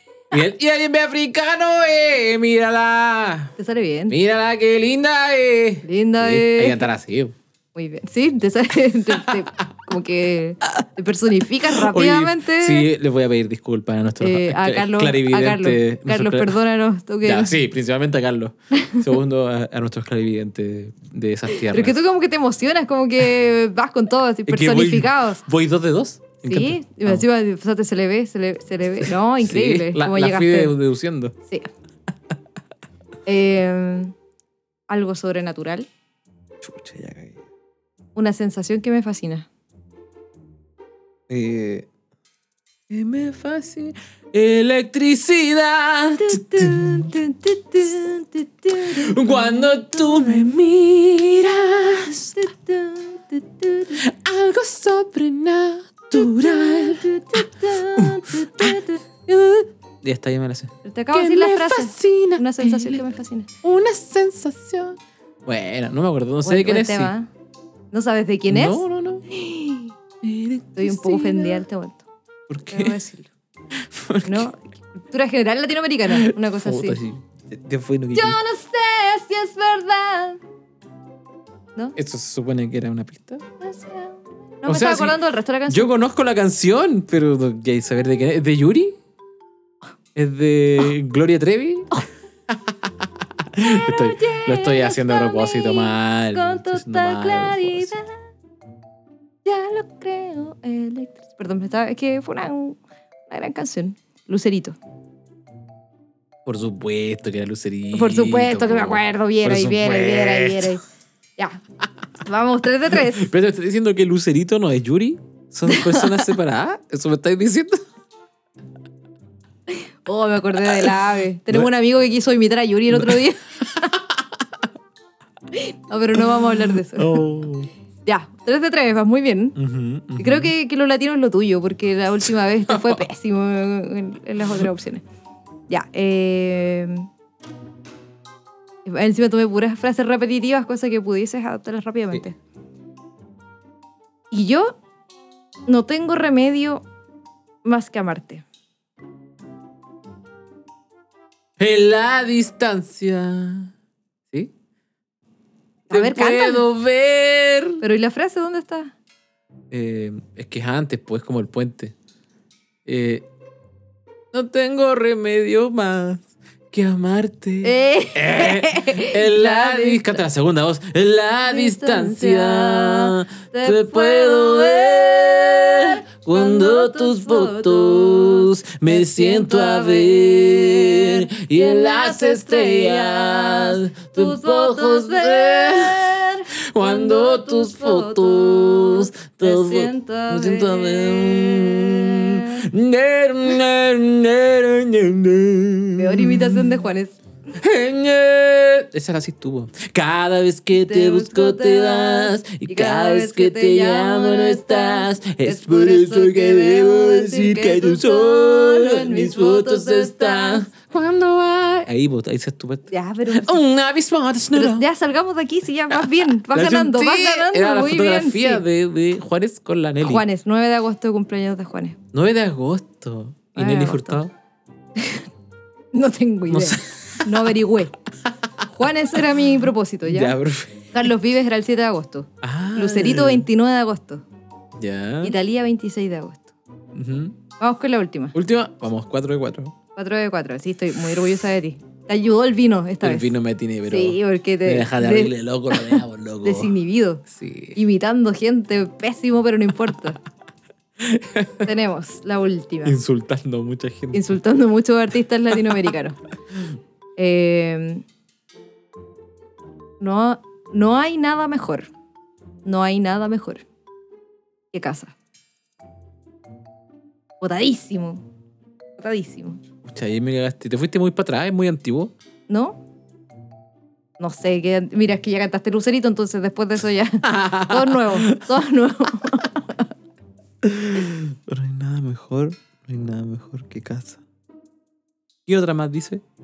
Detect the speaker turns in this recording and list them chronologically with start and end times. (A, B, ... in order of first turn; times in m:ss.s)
0:00.3-0:03.5 A
0:03.6-0:04.2 B
0:04.1-0:07.4 A
0:05.8-0:06.9 B
0:07.7-0:12.9 B
0:11.7-0:16.6 A
0:14.2-0:17.5 B
0:17.2-0:22.0 A
0:18.7-0:19.1 B
0:21.5-0:25.4 B
0:24.5-0:27.2 A
0:26.4-0:30.7 B
0:29.0-0:31.3 A
0:33.2-0:34.1 B
0:34.9-0:35.9 B
0:36.6-0:37.4 A
0:38.2-0:39.5 B
0:41.3-0:41.9 A
0:42.9-0:47.1 A
0:46.2-0:50.5 B
0:48.7-0:52.5 A
0:52.1-0:54.0 B
0:53.8-1:03.0 A
0:56.1-0:59.0 B
1:00.8-1:03.5 B
1:03.6-1:07.1 A
1:06.4-1:07.3 B
1:07.9-1:09.9 B
1:08.5-1:09.2 A
1:10.2-1:11.6 A
1:10.8-1:12.0 B
1:12.5-1:13.0 A
1:12.7-1:13.3 B
1:13.7-1:14.5 A
1:14.2-1:17.0 B
1:16.1-1:18.4 A
1:18.1-1:20.4 B
1:22.0-1:23.4 A
1:23.6-1:25.9 B
1:24.6-1:29.0 A
1:30.1-1:38.0 A
1:33.6-1:38.1 B
1:39.4-1:44.8 B
1:46.4-1:50.8 A
1:47.9-1:50.8 B
1:52.2-1:53.3 B
1:52.9-1:57.8 A
1:55.7-1:56.3 B
1:59.7-2:03.9 B
2:00.6-2:00.9 A
2:02.9-2:03.2 A
2:05.5-2:07.3 B
2:06.8-2:07.7 A
2:08.0-2:09.6 B
2:09.6-2:10.5 A
2:10.2-2:15.0 B
2:12.7-2:13.0 A
2:15.7-2:17.1 B
2:18.8-2:22.4 B
2:24.3-2:24.8 B
2:25.7-2:26.8 B
2:27.6-2:28.4 B
2:31.6-2:33.7 A
2:35.9-2:36.6 B
2:35.9-2:37.8 A
2:37.8-2:38.9 B
2:39.7-2:41.9 A
2:42.8-2:43.2 A
2:44.3-3:16.6 A
2:47.6-2:50.2 B
2:51.5-3:12.6 B
3:16.0-3:17.2 B
3:17.6-3:34.9 A
3:20.7-3:30.7 B
3:32.9-3:33.6 B
3:34.5-3:38.6 B
3:35.9-3:40.2 A
3:40.0-3:42.0 B
3:42.1-3:44.3 A
3:43.6-3:44.2 B
3:44.9-3:45.3 B
3:45.9-3:47.9 B
3:46.5-3:47.4 A
3:48.7-3:50.4 B
3:50.0-3:50.9 A
3:50.9-3:54.2 B
3:52.4-3:53.5 A
3:54.8-3:55.3 A
3:55.2-3:56.5 B
3:56.9-3:57.4 A
3:57.6-3:58.3 B
3:58.3-3:59.7 A
4:00.0-4:03.3 B
4:03.0-4:06.7 A
4:03.9-4:07.2 B
4:07.3-4:07.8 A
4:07.7-4:10.2 B
4:11.0-4:11.7 A
4:11.6-4:13.0 B
4:12.8-4:14.4 A
4:14.1-4:16.2 B
4:17.2-4:18.0 B
4:20.0-4:21.9 B
4:22.6-4:23.6 B
4:24.7-4:25.1 B
4:27.4-4:28.2 B
4:29.0-4:29.6 B
4:29.8-4:32.1 A
4:32.5-4:32.8 B
4:34.2-4:39.9 B
4:37.2-4:38.5 A
4:40.6-4:44.2 A
4:45.5-4:46.2 A